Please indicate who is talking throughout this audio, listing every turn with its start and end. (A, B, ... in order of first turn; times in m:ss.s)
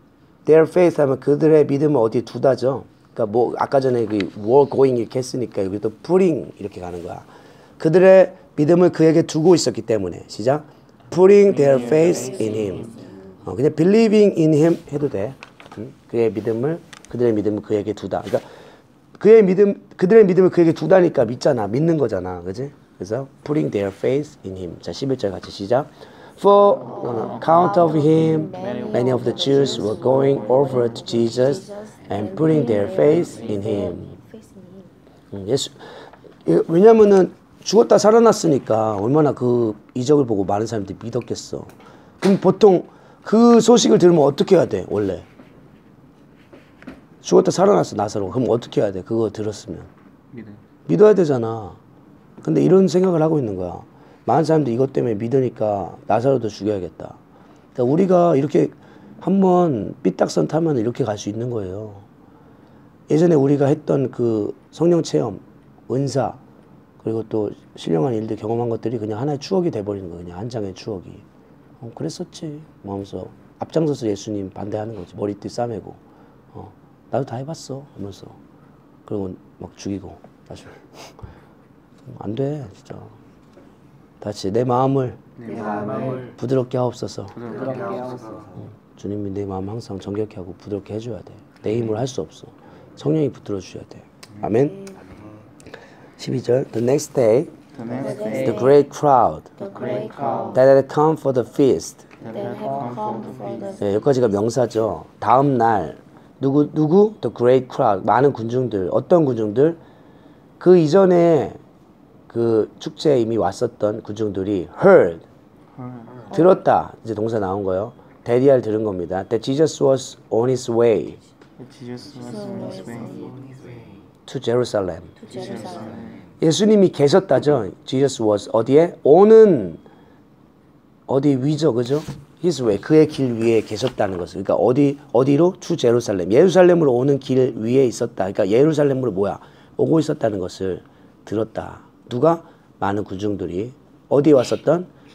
0:00.4-0:07.2 A
0:07.8-0:18.4 A
0:11.4-0:13.0 B
0:12.6-0:13.0 C
0:19.2-0:34.1 A
0:26.7-0:34.9 C
0:27.2-0:30.9 B
0:35.3-0:35.9 A
0:36.4-0:41.7 A
0:42.2-0:45.2 A
0:47.2-0:49.9 A
0:50.3-0:50.6 B
0:50.9-0:51.8 A
0:52.4-0:57.2 A
0:57.7-1:02.0 A
1:03.1-1:06.4 A
1:07.0-1:11.2 A
1:11.8-1:16.0 A
1:16.5-1:18.4 A
1:19.1-1:21.1 A
1:22.0-1:23.2 A
1:24.2-1:25.2 A
1:25.4-1:26.3 B
1:25.4-1:26.3 C
1:26.2-1:27.4 A
1:27.4-1:28.5 B
1:27.7-1:28.0 C
1:28.9-1:34.8 A
1:34.6-1:35.0 C
1:36.2-1:37.5 A
1:37.7-1:38.7 B
1:38.0-1:38.8 C
1:38.4-1:39.5 A
1:39.6-1:40.6 C
1:39.7-1:40.6 B
1:40.5-1:42.0 A
1:42.2-1:43.6 B
1:42.2-1:44.0 C
1:43.8-1:49.8 A
1:50.6-1:51.6 A
1:52.3-1:55.2 A
1:55.7-1:56.3 B
1:56.3-1:56.6 C
1:56.3-2:01.2 A
2:01.6-2:03.6 B
2:02.2-2:03.4 C
2:04.3-2:05.1 A
2:05.2-2:06.0 C
2:05.3-2:06.1 B
2:06.4-2:09.8 A
2:11.1-2:24.9 A